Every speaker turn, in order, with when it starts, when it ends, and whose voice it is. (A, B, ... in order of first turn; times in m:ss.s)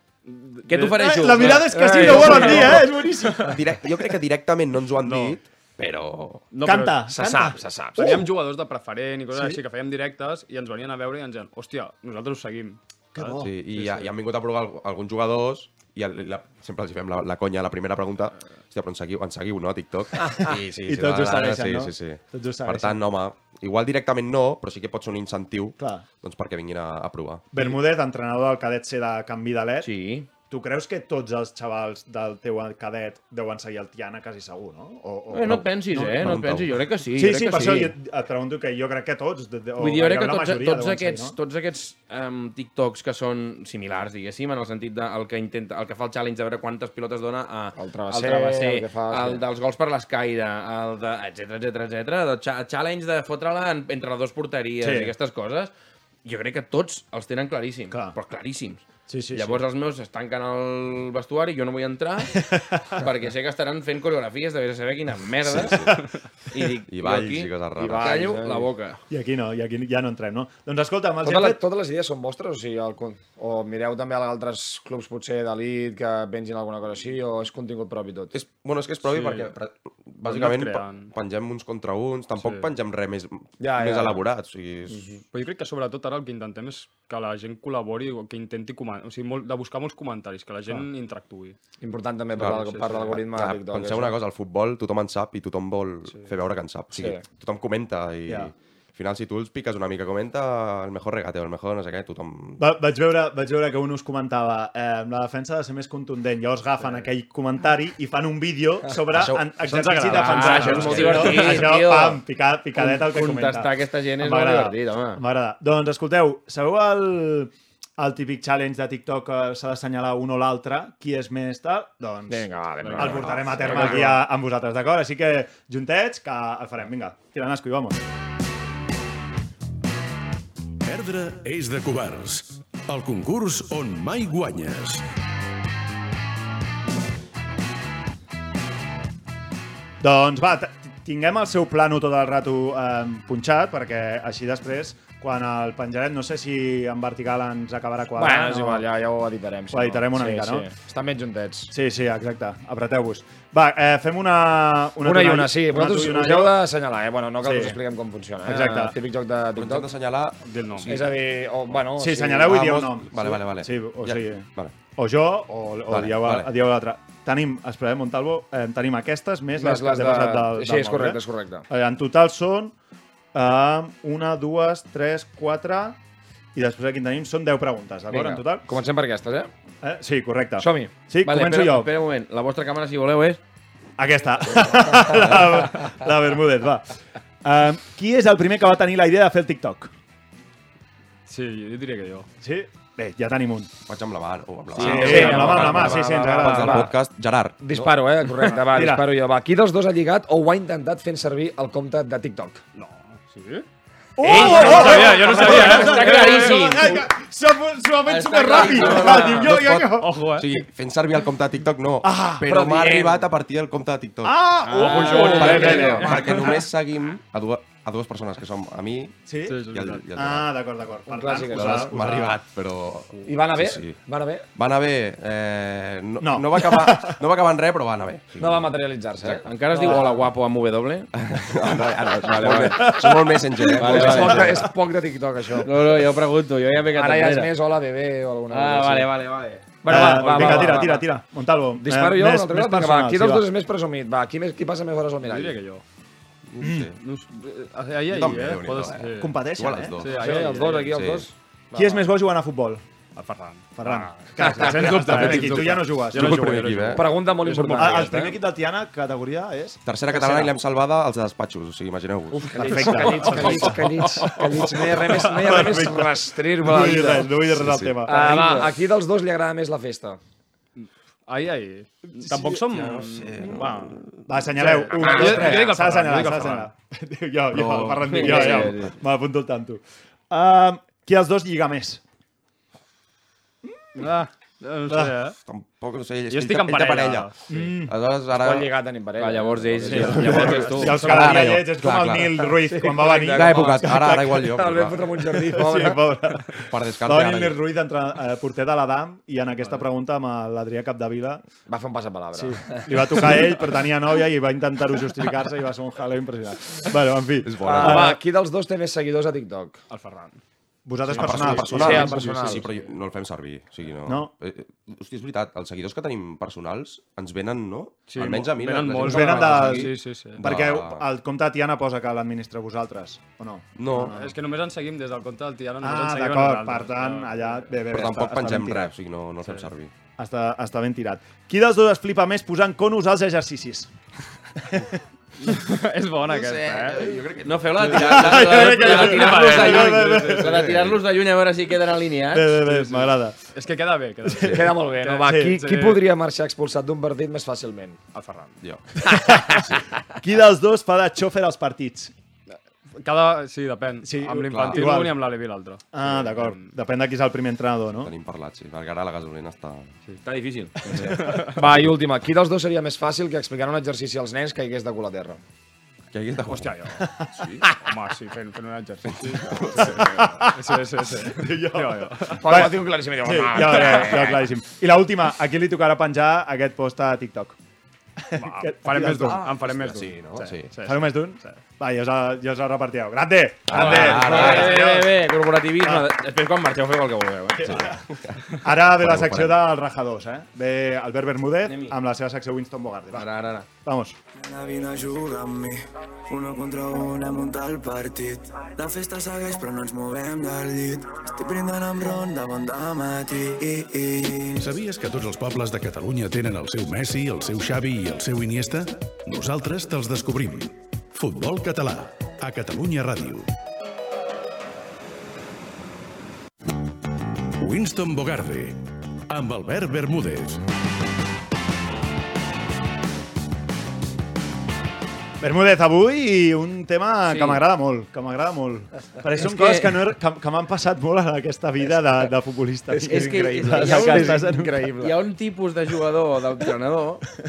0:00.2-0:03.5 A
0:00.7-0:02.5 B
0:00.9-0:03.6 C
0:01.7-0:02.8 D
0:03.4-0:06.4 E
0:05.0-0:05.4 A
0:06.5-0:07.1 A
0:06.6-0:08.3 C
0:07.1-0:08.2 D
0:08.0-0:14.1 A
0:09.3-0:09.6 C
0:13.1-0:13.5 C
0:13.3-0:27.5 E
0:20.2-0:23.0 C
0:25.8-0:26.0 C
0:27.5-0:29.9 C
0:29.8-0:30.3 B
0:30.4-0:36.4 C
0:35.3-0:37.9 B
0:36.2-0:36.8 E
0:37.1-0:41.4 C
0:39.8-0:55.7 B
0:47.7-0:49.4 D
0:54.8-0:55.1 C
0:56.2-1:02.3 B
0:57.9-0:58.2 C
0:59.1-0:59.6 C
1:02.3-1:03.1 C
1:03.0-1:05.8 B
1:05.4-1:06.0 E
1:05.6-1:06.0 C
1:06.5-1:09.0 B
1:06.9-1:08.2 E
1:07.8-1:08.7 D
1:09.1-1:11.6 C
1:11.2-1:18.4 D
1:18.3-1:25.0 E
1:19.0-1:19.5 A
1:20.2-1:21.1 A
1:22.4-1:22.7 A
1:23.6-1:24.2 D
1:25.3-1:31.6 A
1:31.8-1:34.2 D
1:32.4-1:42.7 E
1:32.4-1:33.1 A
1:36.9-1:37.2 D
1:38.3-1:38.5 C
1:42.6-2:08.0 C
1:49.1-1:51.4 E
1:49.8-1:50.8 A
1:50.1-1:52.2 B
1:52.8-1:55.2 B
2:02.3-2:04.2 D
2:02.8-2:03.8 A
2:10.8-2:15.0 F
2:20.0-2:28.8 C
2:28.1-2:31.7 D
2:29.7-2:30.7 C
2:31.7-2:36.6 C
2:35.0-2:39.9 D
2:37.4-2:37.8 C
2:38.4-2:39.0 C
2:39.5-2:41.2 E
2:40.4-2:41.0 A
2:40.9-2:42.6 D
2:41.9-2:52.7 C
2:42.4-2:44.8 E
2:45.9-2:46.5 E
2:49.5-2:51.6 D
2:53.3-2:56.0 C
2:56.5-2:58.7 C
2:58.1-2:59.5 D
2:59.8-3:01.9 C
3:00.6-3:00.9 D
3:01.2-3:03.4 B
3:04.0-3:06.9 C
3:07.4-3:09.9 C
3:11.3-3:12.3 A
3:12.4-3:13.7 C
3:13.8-3:17.9 E
3:14.8-3:16.9 D
3:14.8-3:16.9 C
3:17.6-3:22.6 D
3:18.5-3:19.1 C
3:22.7-3:23.6 A
3:24.2-3:30.2 C
3:24.2-3:27.0 B
3:24.2-3:26.6 A
3:28.1-3:29.5 B
3:29.2-3:30.5 A
3:30.4-3:34.4 E
3:32.0-3:32.5 C
3:32.4-3:33.2 D
3:34.2-3:36.6 C
3:34.6-3:36.2 B
3:34.7-3:36.2 A
3:35.1-3:39.2 E
3:39.2-3:39.6 C
3:39.5-3:40.0 A
3:39.7-3:40.5 E
3:40.1-3:42.4 C
3:41.1-3:42.1 D
3:41.5-3:44.0 E
3:43.2-3:44.4 D
3:44.5-3:49.4 E
3:46.2-3:47.2 C
3:48.4-3:50.2 D
3:49.4-3:51.1 B
3:51.1-3:54.7 E
3:52.1-3:52.8 B
3:52.7-3:53.6 C
3:53.7-3:55.8 D
3:53.8-3:54.5 B
3:55.6-3:57.5 B
3:56.9-3:59.1 D
3:58.5-3:59.8 B
3:59.8-4:01.0 D
3:59.8-4:03.5 C
4:01.8-4:05.6 D
4:05.2-4:05.8 A
4:06.5-4:06.9 E
4:06.6-4:06.9 C
4:07.0-4:09.4 A
4:08.1-4:10.1 E
4:09.1-4:10.0 C
4:10.0-4:11.0 A
4:10.0-4:12.0 D
4:10.8-4:11.3 E
4:11.7-4:12.8 C
4:13.2-4:18.2 A
4:13.8-4:16.5 C
4:16.1-4:17.0 E
4:16.9-4:18.4 D
4:17.7-4:20.4 C
4:19.8-4:22.7 E
4:22.3-4:27.3 D
4:22.5-4:24.2 C
4:23.2-4:23.7 B
4:25.0-4:28.7 C
4:25.1-4:25.7 A
4:27.5-4:28.0 E
4:28.0-4:30.2 D
4:30.8-4:33.5 A
4:32.3-4:32.6 C
4:32.7-4:34.4 E
4:33.4-4:42.0 C
4:34.9-4:36.7 A
4:35.1-4:35.5 D
4:37.8-4:38.9 B
4:43.6-4:44.2 C
4:44.0-4:45.4 A
4:44.9-4:45.2 C
4:45.4-4:48.7 E
4:46.3-4:47.7 A
4:47.5-4:47.9 C
4:48.4-4:51.1 D
4:49.2-4:51.5 B
4:49.9-4:54.5 C
4:50.1-4:52.5 E
4:52.6-4:56.0 D
4:53.3-4:55.0 E
4:55.3-5:01.4 C
4:56.7-4:57.6 E
5:01.7-5:03.2 D
5:02.3-5:08.2 C
5:07.4-5:08.1 E
5:07.6-5:09.8 D
5:09.9-5:10.4 A
5:10.8-5:12.4 C
5:11.0-5:12.6 A
5:11.2-5:19.8 E
5:11.6-5:12.6 D
5:14.0-5:14.3 C
5:18.1-5:20.4 A
5:19.0-5:24.3 C
5:20.4-5:21.0 E
5:23.8-5:24.1 E
5:24.1-5:27.8 A
5:25.8-5:28.9 C
5:27.9-5:29.9 E
5:30.2-5:33.9 C
5:34.6-5:35.0 C
5:35.4-5:37.2 A
5:36.2-5:37.8 E
5:37.4-5:42.6 B
5:37.8-5:40.5 A
5:37.9-5:40.8 C
5:40.7-5:41.0 E
5:42.3-5:43.4 C
5:42.6-5:46.0 A
5:44.2-5:44.7 C
5:44.5-5:48.0 D
5:45.2-5:45.6 C
5:48.1-5:48.6 A
5:48.6-5:48.8 E
5:49.0-5:52.1 C
5:52.5-5:56.7 A
5:54.0-5:55.2 C
5:54.5-5:54.9 E
5:55.9-5:58.1 C
5:58.0-5:59.9 E
6:00.2-6:01.1 B
6:01.1-6:01.6 A
6:01.4-6:05.4 D
6:06.1-6:06.8 E
6:06.4-6:12.7 A
6:07.0-6:07.5 C
6:09.1-6:10.0 E
6:09.7-6:17.6 C
6:12.4-6:14.4 D
6:18.2-6:19.5 C
6:18.4-6:21.6 A
6:19.5-6:20.7 E
6:20.8-6:25.2 C
6:23.7-6:24.7 E
6:23.7-6:27.8 B
6:25.8-6:26.1 C
6:27.6-6:28.0 C
6:27.6-6:29.6 E
6:28.6-6:34.2 C
6:31.6-6:32.0 B
6:33.1-6:33.7 B
6:34.3-6:44.7 G
6:44.6-6:53.5 F
6:57.6-6:58.8 F
6:59.3-7:00.6 F
7:05.4-7:14.9 C
7:07.2-7:07.6 B
7:09.4-7:10.0 B
7:12.9-7:15.2 D
7:13.1-7:17.2 B